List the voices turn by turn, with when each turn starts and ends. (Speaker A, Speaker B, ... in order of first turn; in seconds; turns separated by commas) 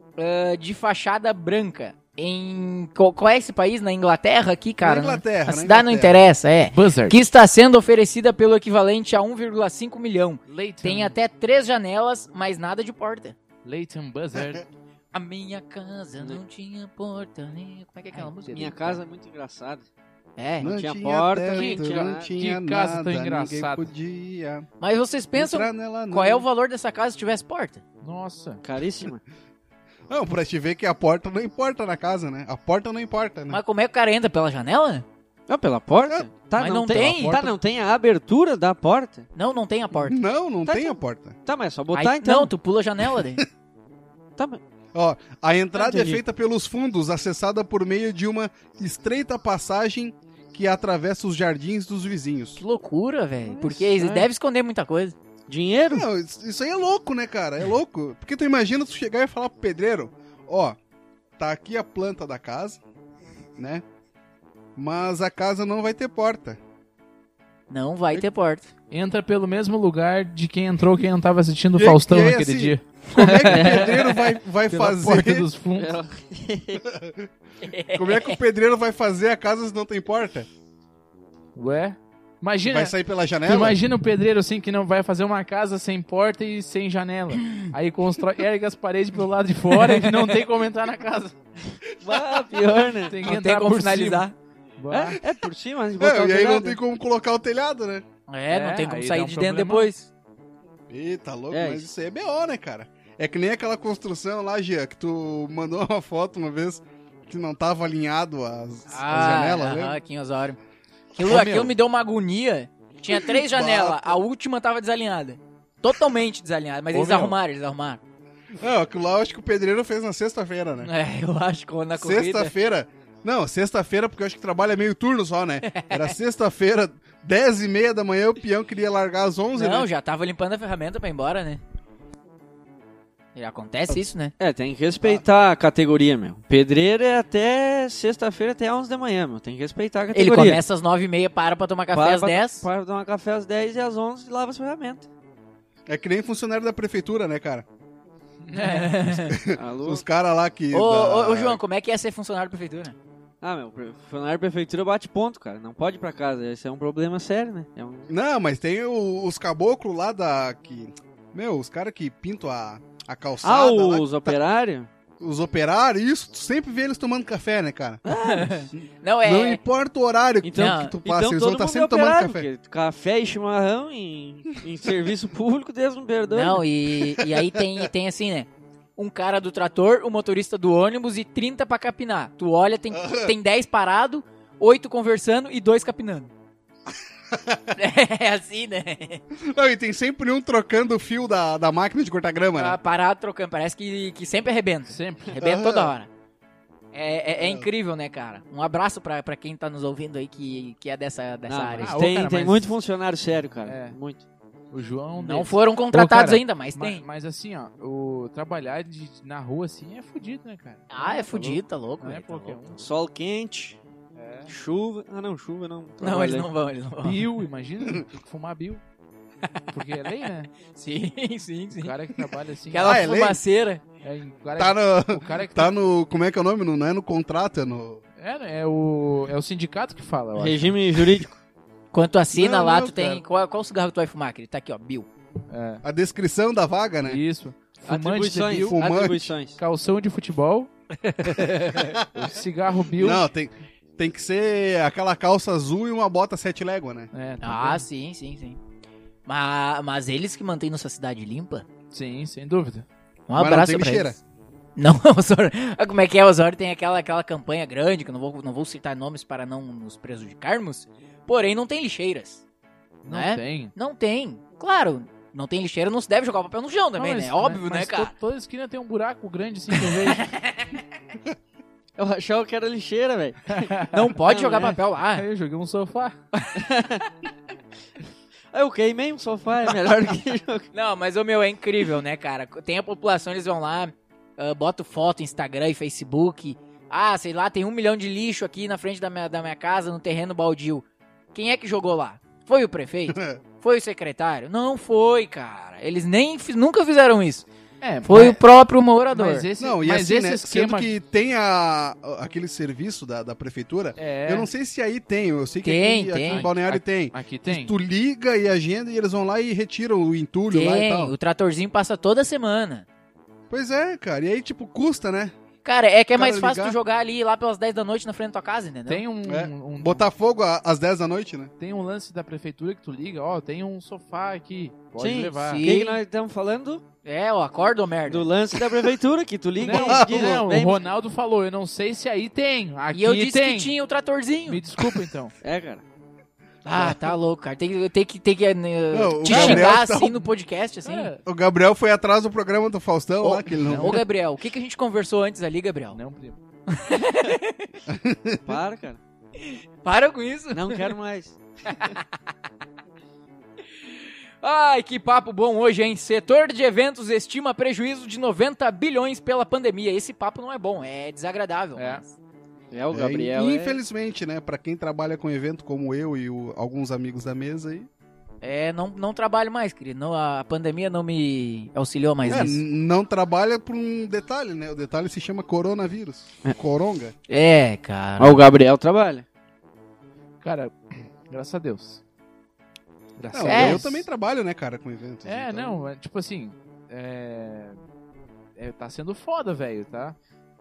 Speaker A: 0.2-13.3, Speaker B: 4.8-6.2, Speaker C: 6.7-7.2, Speaker C: 10.5-11.1, Speaker C: 13.6-14.6, Speaker B: 14.3-14.6, Speaker A: 15.1-19.0, Speaker C: 18.1-18.6, Speaker D: 18.5-19.9, Speaker A: 20.4-20.7, Speaker B: 20.6-24.7, Speaker D: 20.6-22.3, Speaker C: 21.5-23.9, Speaker A: 24.8-27.8, Speaker B: 25.3-26.4, Speaker C: 28.0-28.6, Speaker D: 28.6-29.2, Speaker B: 30.1-33.6, Speaker A: 33.5-35.0, Speaker D: 35.5-39.3, Speaker A: 36.6-37.4, Speaker B: 36.9-37.5, Speaker A: 39.3-40.2, Speaker B: 40.0-41.4, Speaker D: 40.6-42.5, Speaker A: 41.9-43.4, Speaker B: 44.9-52.6, Speaker D: 45.7-46.2, Speaker A: 52.5-55.1, Speaker D: 53.5-54.1, Speaker D: 55.5-56.1, Speaker B: 55.9-60.8, Speaker B: 61.4-62.8, Speaker B: 63.6-63.8, Speaker B: 64.8-66.6, Speaker A: 67.7-68.7, Speaker C: 68.9-76.0, Speaker B: 71.7-75.5, Speaker D: 73.4-74.2, Speaker D: 75.7-76.8, Speaker B: 76.8-77.3, Speaker A: 77.6-78.4, Speaker B: 77.9-80.5, Speaker C: 81.5-82.9, Speaker B: 82.6-83.8, Speaker C: 83.4-91.4, Speaker D: 92.0-93.2, Speaker C: 93.0-95.2, Speaker A: 93.2-94.3, Speaker D: 94.9-96.8, Speaker B: 96.0-98.0, Speaker A: 98.3-100.1, Speaker C: 98.5-99.9, Speaker B: 100.9-110.0, Speaker D: 101.5-101.8, Speaker A: 108.9-110.6, Speaker A: 111.1-118.0, Speaker C: 111.2-111.7, Speaker B: 113.1-114.2, Speaker C: 116.9-117.3, Speaker B: 118.6-120.9, Speaker A: 120.8-122.5, Speaker B: 122.0-129.9, Speaker A: 125.7-126.1, Speaker A: 129.5-131.6, Speaker A: 133.3-134.3, Speaker D: 134.4-140.6, Speaker A: 140.1-142.6, Speaker D: 141.9-145.1, Speaker B: 145.9-147.7, Speaker C: 148.4-149.2, Speaker A: 148.5-149.3, Speaker B: 149.3-151.6, Speaker D: 149.5-150.0, Speaker A: 150.7-152.9, Speaker D: 153.4-158.1, Speaker B: 158.1-164.4, Speaker D: 163.4-164.9, Speaker B: 165.2-168.0, Speaker D: 168.1-168.6, Speaker A: 168.1-169.6, Speaker B: 169.2-172.5, Speaker D: 170.4-176.6, Speaker A: 170.5-170.9, Speaker A: 176.3-186.3, Speaker B: 177.2-177.8, Speaker B: 182.9-183.3, Speaker B: 187.3-187.7, Speaker A: 187.7-189.2, Speaker B: 189.3-192.8, Speaker A: 192.5-196.1, Speaker C: 194.9-195.4, Speaker B: 195.4-195.9, Speaker A: 196.9-202.0, Speaker B: 197.4-197.7, Speaker D: 201.5-204.2, Speaker C: 201.8-202.7, Speaker C: 203.7-204.0, Speaker C: 204.7-212.9, Speaker A: 205.2-207.0, Speaker A: 210.9-212.6, Speaker D: 212.7-213.8, Speaker C: 214.2-214.5, Speaker D: 214.5-216.5, Speaker A: 216.0-217.2, Speaker C: 217.0-218.8, Speaker A: 219.5-220.1, Speaker C: 219.7-220.5, Speaker A: 220.7-221.9, Speaker C: 221.8-223.1, Speaker A: 222.7-223.8, Speaker B: 222.8-223.4, Speaker C: 224.0-225.7, Speaker B: 224.6-228.0, Speaker C: 228.2-230.8, Speaker D: 230.3-231.4, Speaker A: 231.9-235.1, Speaker B: 232.3-233.2, Speaker C: 235.5-235.8, Speaker B: 235.8-237.2, Speaker C: 237.1-238.8, Speaker D: 237.8-239.6, Speaker B: 238.5-239.3, Speaker C: 239.6-240.7, Speaker A: 241.0-241.9, Speaker C: 241.2-243.2, Speaker B: 241.9-242.3, Speaker B: 242.9-247.1, Speaker C: 247.1-247.8, Speaker A: 247.4-248.6, Speaker A: 249.2-251.7, Speaker C: 251.9-252.8, Speaker A: 253.3-254.1, Speaker B: 253.3-254.2, Speaker A: 254.8-262.4, Speaker C: 263.0-263.7, Speaker A: 263.1-268.1, Speaker C: 266.9-270.3, Speaker A: 269.7-270.8, Speaker D: 272.0-274.8, Speaker C: 273.5-274.0, Speaker A: 273.9-275.2, Speaker C: 275.1-276.2, Speaker D: 276.6-277.0, Speaker D: 278.5-280.7, Speaker A: 280.7-297.5, Speaker B: 293.1-293.4, Speaker C: 297.8-298.4, Speaker A: 298.0-299.5, Speaker C: 299.1-300.9, Speaker B: 299.6-311.1, Speaker C: 304.0-304.5, Speaker A: 305.6-306.5, Speaker C: 306.3-307.7, Speaker A: 310.5-312.9, Speaker B: 313.5-315.3, Speaker A: 315.6-319.0, Speaker B: 316.1-316.8, Speaker C: 318.9-320.1, Speaker B: 319.2-321.5, Speaker C: 321.6-325.6, Speaker D: 325.0-326.8, Speaker A: 325.4-326.0, Speaker A: 327.0-328.3, Speaker D: 328.1-330.8, Speaker C: 329.6-333.7, Speaker B: 329.7-330.4, Speaker A: 332.9-334.6, Speaker C: 334.5-335.3, Speaker D: 335.4-335.8, Speaker A: 336.6-341.1, Speaker B: 336.7-337.1, Speaker B: 338.9-340.2, Speaker C: 339.3-339.7, Speaker C: 340.8-341.2, Speaker B: 341.2-344.0, Speaker A: 343.2-346.0, Speaker C: 343.6-344.0, Speaker C: 345.9-346.4, Speaker A: 346.7-347.8, Speaker B: 347.9-348.6, Speaker D: 348.4-349.0, Speaker A: 349.4-350.9, Speaker D: 350.5-351.4, Speaker A: 351.7-352.0, Speaker A: 354.4-362.1, Speaker C: 361.8-362.0, Speaker D: 362.7-363.8, Speaker B: 362.9-367.9, Speaker A: 368.4-372.6, Speaker B: 372.2-377.1, Speaker A: 377.3-378.4, Speaker D: 378.2-379.2, Speaker C: 380.4-382.0, Speaker C: 383.2-384.1, Speaker B: 383.3-385.8, Speaker A: 383.4-383.8, Speaker C: 385.2-387.8, Speaker C: 388.6-390.2